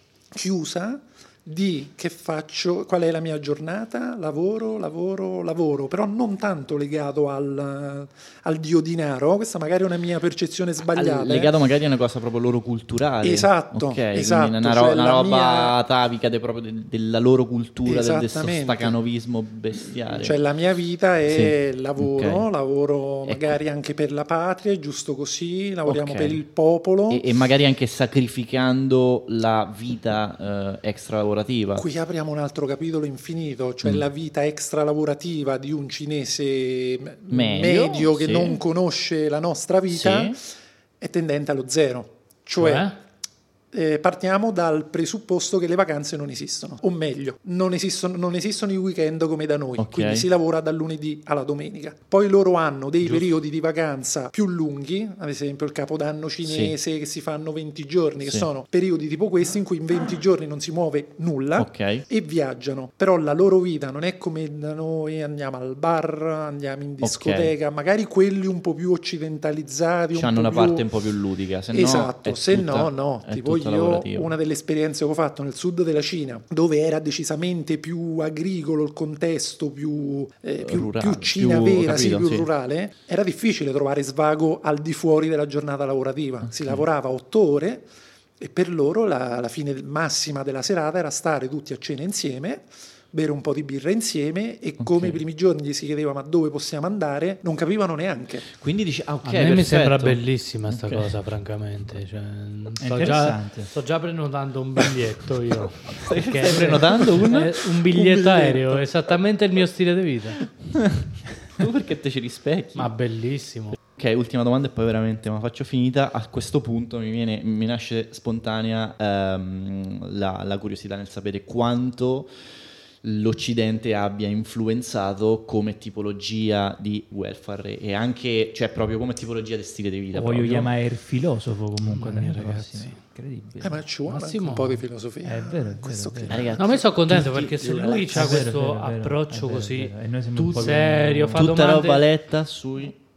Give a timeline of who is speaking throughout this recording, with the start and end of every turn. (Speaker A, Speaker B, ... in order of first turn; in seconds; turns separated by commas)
Speaker A: 0.3-11.5, Speaker B: 10.9-20.4, Speaker A: 13.2-15.8, Speaker A: 17.9-19.0, Speaker A: 20.1-27.2, Speaker B: 21.3-22.5, Speaker B: 23.2-23.6, Speaker B: 25.9-26.4, Speaker B: 27.1-31.9, Speaker A: 31.8-40.4, Speaker B: 37.3-38.6, Speaker B: 39.9-40.4, Speaker A: 41.0-42.9, Speaker C: 42.6-43.0, Speaker A: 43.7-70.9, Speaker B: 49.8-50.3, Speaker B: 56.4-56.8, Speaker B: 58.2-58.5, Speaker B: 61.6-62.0, Speaker B: 67.0-67.5, Speaker B: 70.1-74.3, Speaker A: 71.7-87.9, Speaker B: 80.6-82.5, Speaker B: 86.5-86.8, Speaker A: 88.4-98.5, Speaker B: 94.8-95.2, Speaker B: 98.5-101.1, Speaker C: 99.2-110.5, Speaker D: 102.8-103.7, Speaker B: 106.0-107.7, Speaker A: 107.9-108.8, Speaker B: 110.8-112.9, Speaker C: 112.8-113.8, Speaker B: 114.0-122.3, Speaker B: 123.0-130.7, Speaker D: 130.1-133.8, Speaker C: 131.9-133.0, Speaker A: 133.6-138.4, Speaker C: 134.1-134.8, Speaker D: 135.2-136.5, Speaker B: 136.3-138.2, Speaker C: 136.6-142.0, Speaker D: 138.1-141.5, Speaker B: 140.4-140.8, Speaker B: 141.3-143.0